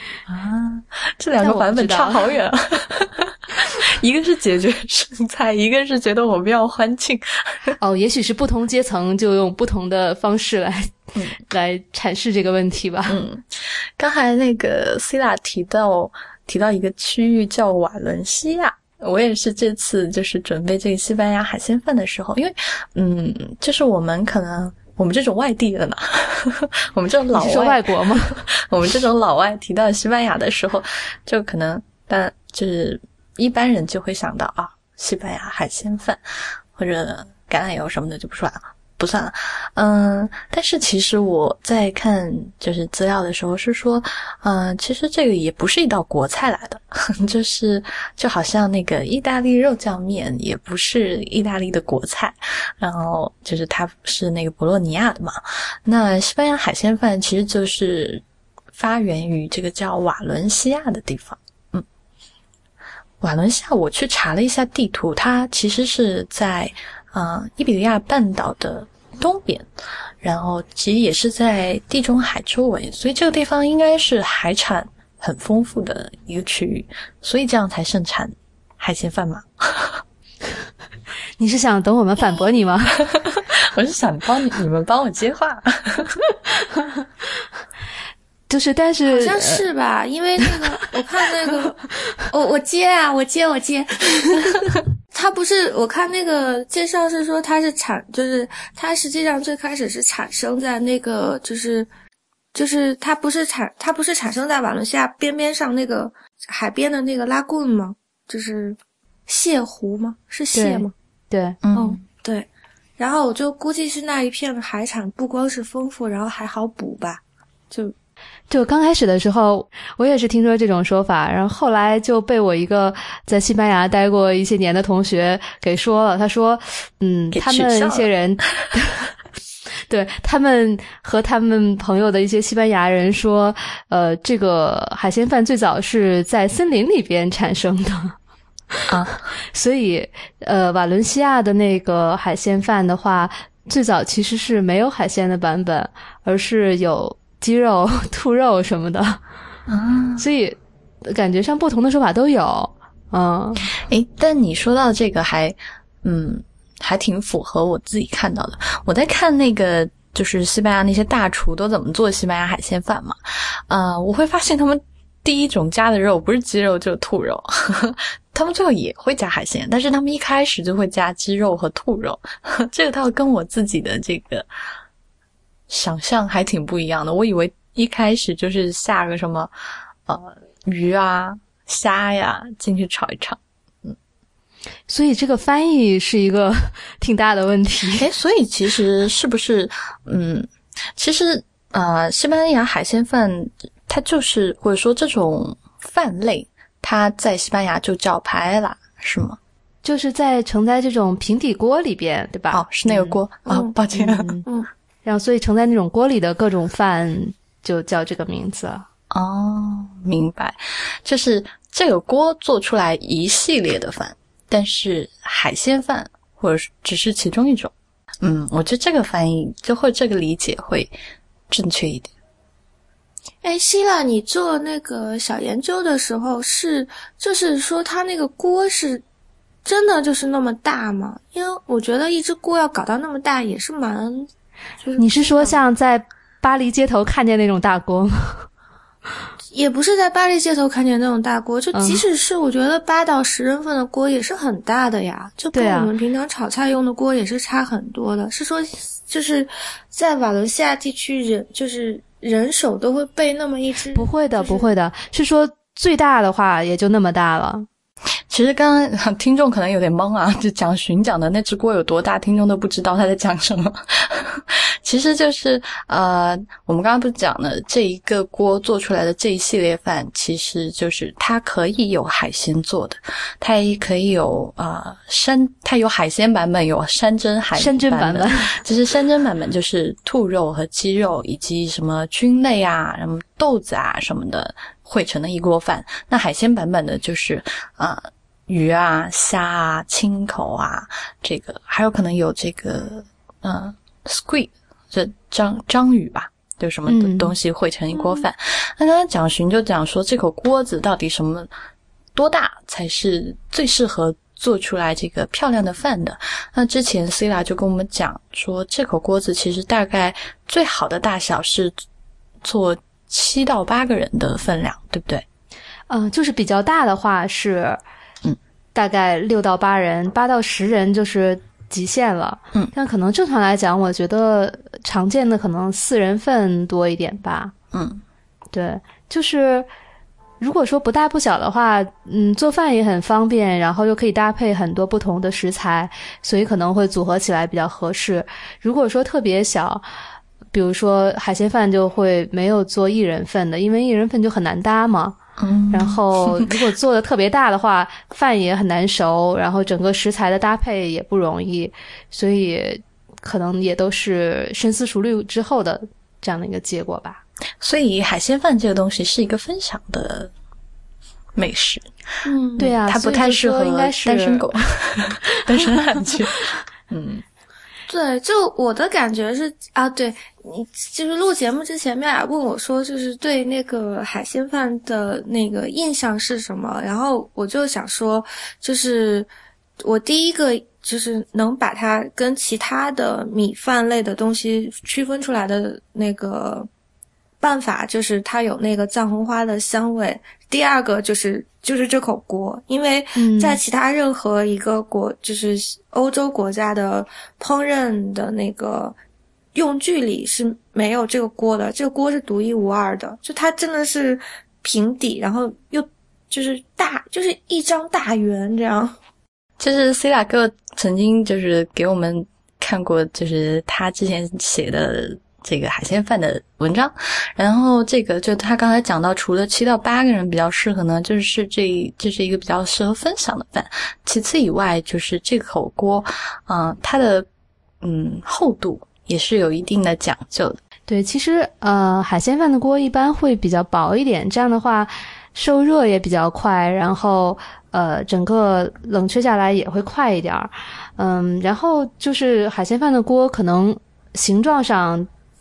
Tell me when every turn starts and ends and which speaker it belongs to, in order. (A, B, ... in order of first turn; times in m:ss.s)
0:00.3-0:07.8 A
0:01.4-0:02.3 B
0:07.8-0:13.2 B
0:13.1-0:36.2 A
0:27.3-0:28.4 B
0:36.8-0:58.2 A
0:58.7-1:01.9 A
1:03.2-1:09.7 A
1:10.2-1:20.0 A
1:21.4-1:23.1 B
1:23.1-1:26.2 A
1:28.5-1:29.7 B
1:29.1-1:31.8 C
1:32.3-1:34.6 C
1:35.1-1:41.9 C
1:42.5-1:50.9 C
1:50.6-1:51.6 B
1:51.6-1:52.0 A
1:51.7-1:57.9 C
1:58.5-2:09.1 B
2:07.3-2:08.1 A
2:09.9-2:18.2 B
2:18.9-2:19.3 A
2:19.5-2:29.2 B
2:29.7-2:30.3 A
2:30.2-2:33.7 B
2:33.7-2:54.5 A
2:55.7-2:59.5 A
3:00.1-3:04.0 A
3:04.9-3:08.1 B
3:07.9-3:19.4 A
3:19.8-3:23.2 B
3:22.5-3:24.4 A
3:23.5-3:23.8 C
3:24.0-3:24.5 B
3:25.0-3:28.9 B
3:29.1-3:40.9 A
3:41.5-3:42.1 A
3:43.4-3:49.0 C
3:49.6-3:54.3 C
3:54.8-3:55.6 C
3:55.0-3:58.5 B
3:59.5-4:14.7 C
4:01.7-4:02.0 B
4:05.5-4:05.9 B
4:13.9-4:17.7 B
4:18.3-5:01.5 A
4:37.6-4:38.6 B
4:56.9-4:57.3 B
4:58.0-4:58.2 C
5:02.2-5:11.8 A
5:12.4-5:15.3 A
5:15.9-5:17.8 B
5:18.8-5:27.5 B
5:27.7-5:28.0 A
5:28.5-5:29.7 B
5:30.4-5:39.8 B
5:40.5-5:45.2 B
5:45.4-5:46.6 A
5:45.7-5:57.2 B
5:57.6-6:00.3 A
6:01.4-6:01.9 A
6:02.2-6:02.7 C
6:02.6-6:04.6 B
6:02.6-6:07.2 A
6:05.5-6:05.8 B
6:07.9-6:19.3 C
6:19.8-6:26.7 C
6:27.4-6:39.0 C
6:33.2-6:33.6 B
6:39.6-6:49.0 C
6:49.6-7:07.3 A
7:07.8-7:10.6 A
7:10.9-7:25.1 B